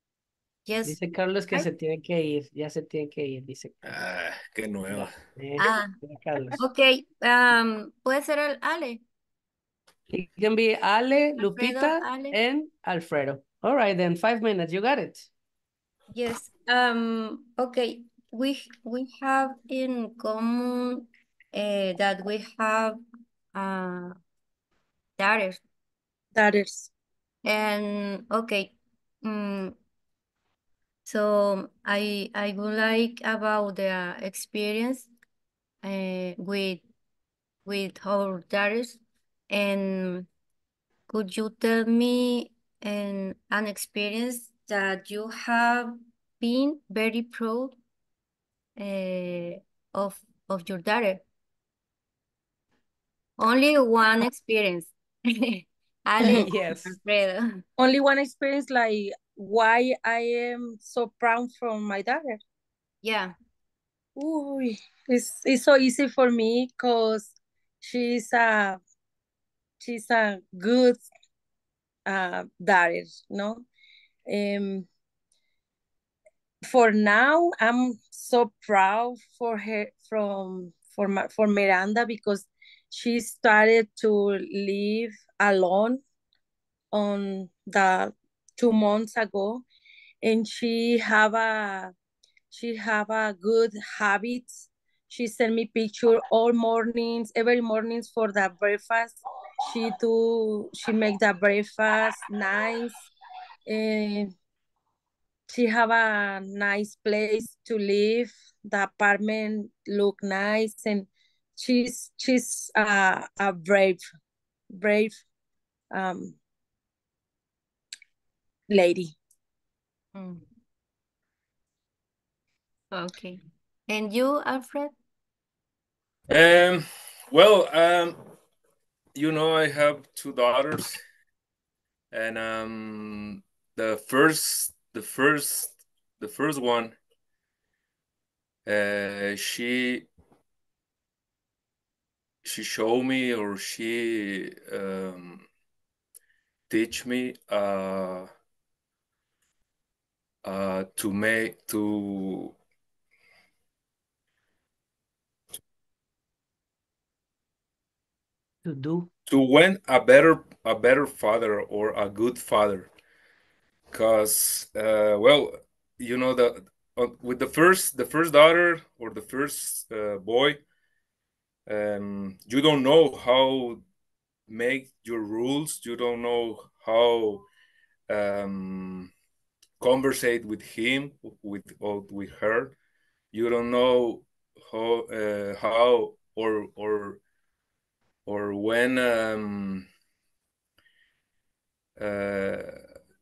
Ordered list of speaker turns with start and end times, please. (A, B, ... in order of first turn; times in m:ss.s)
0:00.6-0:01.0 A
0:00.8-0:03.8 B
0:03.8-0:05.2 C
0:04.9-0:06.6 B
0:05.6-0:05.9 A
0:06.6-0:09.0 A
0:10.1-0:15.3 B
0:11.4-0:12.4 A
0:16.1-0:23.0 A
0:23.5-0:24.2 A
0:25.2-0:25.6 A
0:26.3-0:26.9 D
0:27.4-0:29.8 A
0:31.0-0:35.1 A
0:35.8-0:36.8 A
0:37.6-0:40.3 A
0:41.1-0:47.8 A
0:48.8-0:51.2 A
0:53.4-0:57.6 A
0:56.2-0:56.9 B
0:57.8-1:02.4 D
1:03.0-1:03.3 A
1:04.2-1:08.8 D
1:09.8-1:11.0 D
1:12.1-1:13.6 D
1:14.3-1:14.9 D
1:16.6-1:26.0 D
1:26.9-1:29.6 D
1:30.2-1:31.9 D
1:32.5-1:43.0 D
1:43.7-1:44.3 D
1:45.5-1:54.0 D
1:54.7-1:55.2 D
1:55.9-1:56.4 D
1:58.7-1:59.1 D
2:00.1-2:00.4 A
2:02.9-2:04.9 A
2:06.3-2:08.2 C
2:09.1-2:11.0 C
2:12.1-2:17.0 C
2:18.6-2:20.1 C
2:22.4-2:25.4 C
2:26.7-2:28.3 C
2:30.4-2:32.5 C
2:38.6-2:39.1 B
2:39.3-2:42.9 C
2:43.9-2:50.6 C
2:51.7-2:53.8 C
2:54.5-2:57.4 C
2:58.1-2:59.1 C
2:59.8-3:02.8 C
3:03.3-3:07.2 C
3:08.2-3:09.8 C
3:12.0-3:12.8 C